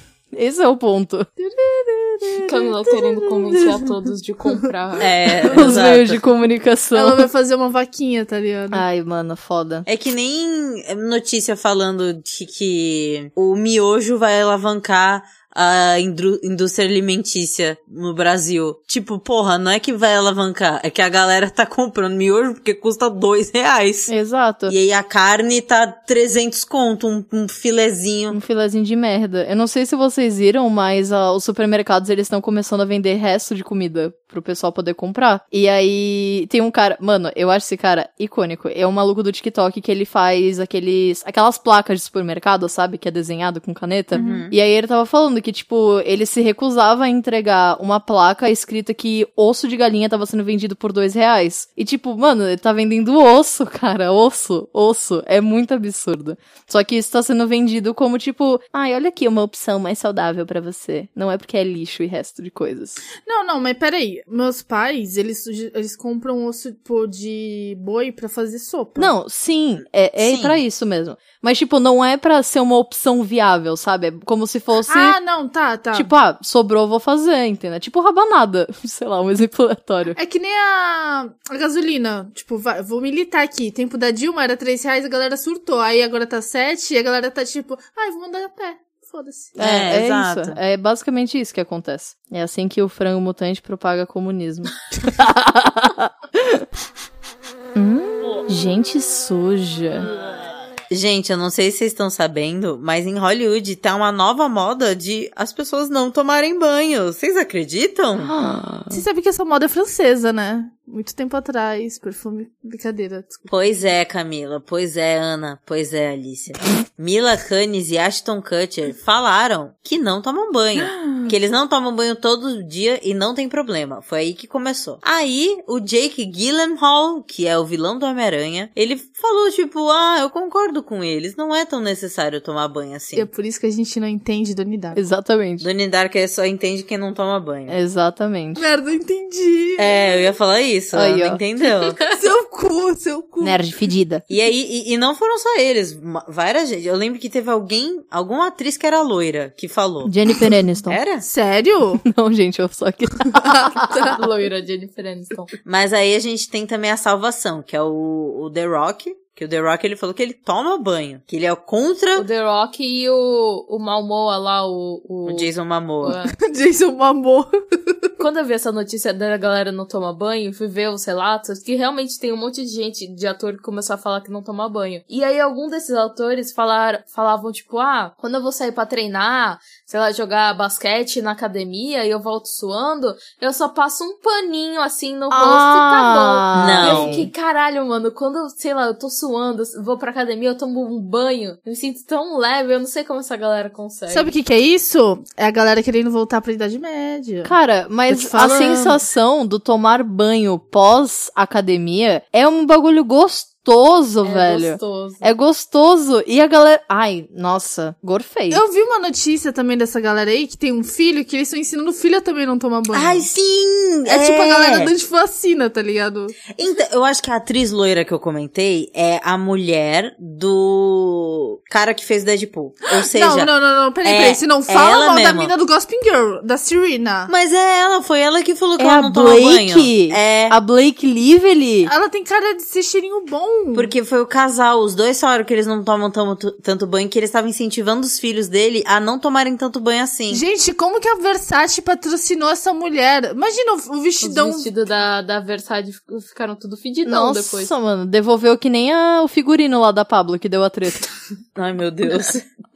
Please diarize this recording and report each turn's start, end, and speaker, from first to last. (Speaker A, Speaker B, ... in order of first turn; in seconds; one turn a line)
Speaker A: 0.3-1.3
Speaker B: 1.4-2.8
Speaker C: 2.5-5.1
Speaker D: 5.0-6.2
Speaker B: 5.4-5.9
Speaker A: 5.5-7.3
Speaker B: 7.0-8.8
Speaker A: 8.7-9.9
Speaker D: 9.9-24.1
Speaker A: 24.1-24.8
Speaker D: 24.7-28.4
Speaker A: 28.3-63.0
Speaker D: 44.1-44.5
Speaker B: 44.1-44.5
Speaker B: 63.2-69.1
Speaker A: 69.0-75.2
Speaker D: 70.2-70.6
Speaker B: 74.9-76.1
Speaker A: 75.9-80.2
Speaker B: 80.2-89.6
Speaker A: 89.6-96.7
Speaker D: 89.6-90.6
Speaker A: 97.8-100.1
Speaker D: 100.9-108.3
Speaker A: 108.2-109.0
Speaker B: 108.9-113.5
Speaker D: 113.5-133.3
Speaker B: 120.8-121.3
Speaker B: 133.2-135.0
Speaker A: 134.9-135.7
Speaker D: 135.6-137.8
Speaker A: 137.7-138.7
Speaker B: 138.6-140.0
Speaker D: 139.8-142.0
Speaker A: 140.9-141.4
Speaker B: 142.1-143.6
Speaker A: 143.4-144.2
Speaker D: 144.3-150.1
Speaker A: 150.1-151.0
Speaker D: 150.9-151.3
Speaker B: 151.2-152.0
Speaker A: 152.1-154.1
Speaker B: 153.3-154.2
Speaker C: 153.9-155.5
Speaker D: 155.7-162.3
Speaker C: 162.2-166.4
Speaker D: 165.3-166.2
Speaker B: 166.4-167.5
Speaker C: 168.2-194.3
Speaker A: 185.3-187.3
Speaker D: 186.5-187.3
Speaker B: 194.1-197.6
Speaker A: 197.4-208.6
Speaker B: 198.1-199.0
Speaker C: 204.2-205.3
Speaker B: 208.5-213.3
Speaker D: 212.9-214.9
Speaker B: 214.1-216.4
Speaker D: 216.5-223.5
Speaker B: 223.0-227.3
Speaker D: 224.0-225.5
Speaker D: 227.3-230.6
Speaker A: 228.8-231.9
Speaker B: 231.9-233.9
Speaker D: 233.7-240.4
Speaker B: 240.3-244.7
Speaker C: 244.2-247.7
Speaker A: 247.1-251.0
Speaker D: 251.6-252.5